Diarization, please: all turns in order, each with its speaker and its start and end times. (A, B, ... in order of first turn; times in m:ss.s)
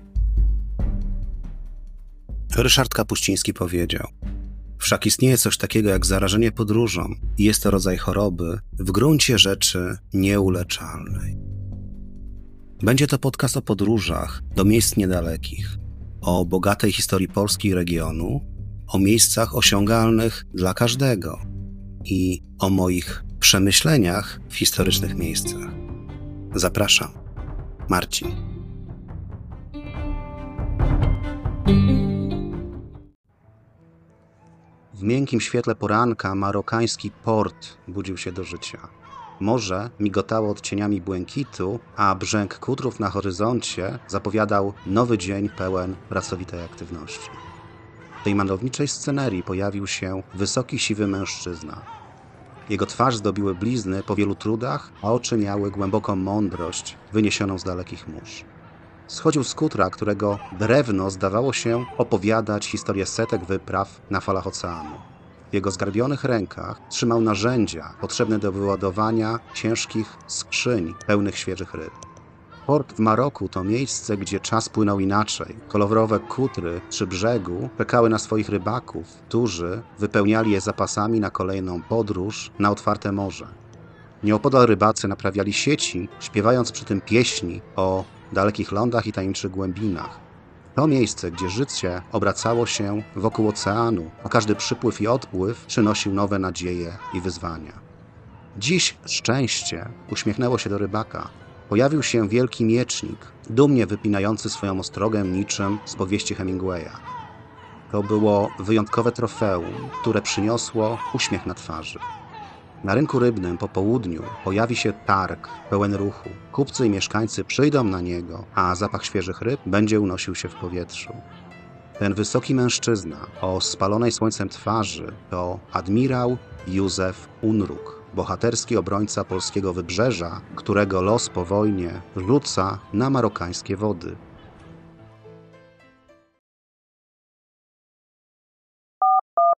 0:02.5-0:04.1 A
0:04.8-0:11.3 A
0:12.8-0:21.4 A
0:22.0-0:25.7 A
0:26.5-0:27.1 A
0:27.9-0:28.4 A
0:34.9-0:47.4 A
0:48.2-0:51.9 A
0:52.7-0:58.5 A
0:59.1-1:11.9 A
1:12.7-1:23.6 A
1:24.2-1:30.2 A
1:30.7-1:37.8 A
1:38.5-1:47.0 A
1:47.9-1:52.0 A
1:52.8-2:01.2 A
2:02.0-2:14.2 A